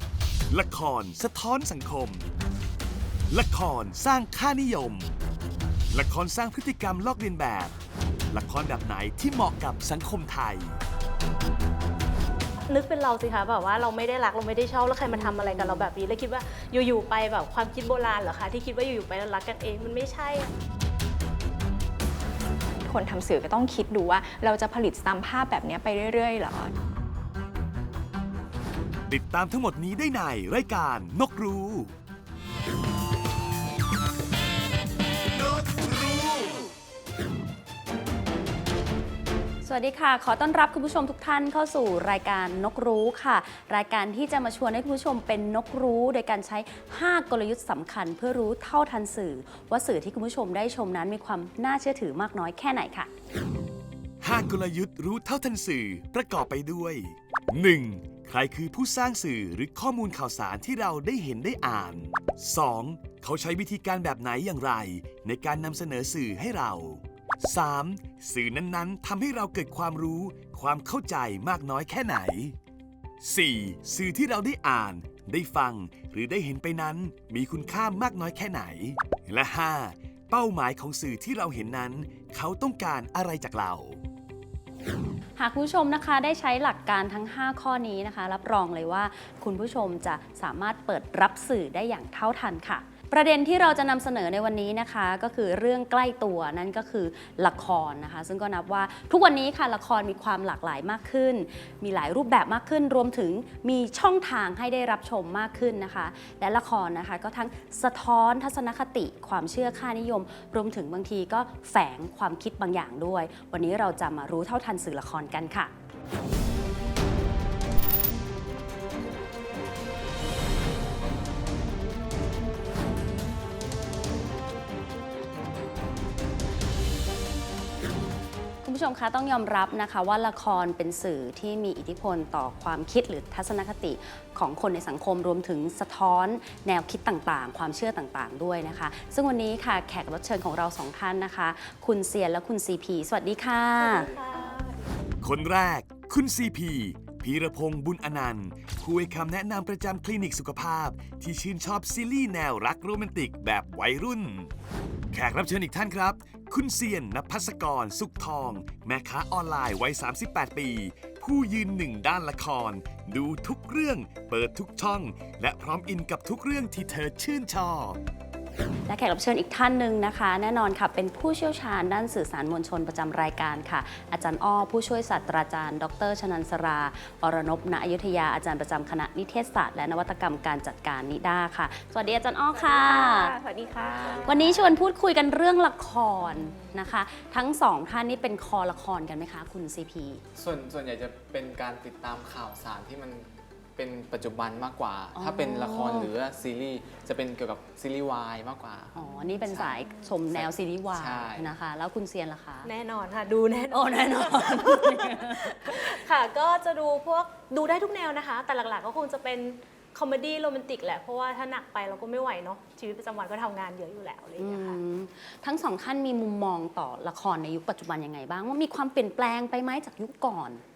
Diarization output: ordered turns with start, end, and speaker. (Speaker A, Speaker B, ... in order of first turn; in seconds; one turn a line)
Speaker A: 0.5-2.2
Speaker A: 3.3-5.1
Speaker A: 5.9-7.7
Speaker A: 8.3-10.8
Speaker B: 12.7-20.5
Speaker C: 15.1-15.9
Speaker D: 22.8-26.7
Speaker A: 29.1-31.9
Speaker C: 39.6-53.1
Speaker A: 54.2-72.5
Speaker A: 73.2-84.0
Speaker C: 85.4-115.7
Speaker C: 128.6-144.1
Speaker B: 143.8-145.1
Speaker A: 145.2-154.5
Speaker A: 155.1-168.0
Speaker C: 168.9-183.3
Speaker D: 182.5-184.7
Speaker E: 183.8-184.6
Speaker C: 184.2-190.2
Speaker E: 190.3-201.5
Speaker C: 195.1-196.1
Speaker C: 198.9-202.7
Speaker B: 202.6-214.8
Speaker C: 203.7-205.4
Speaker C: 214.4-220.6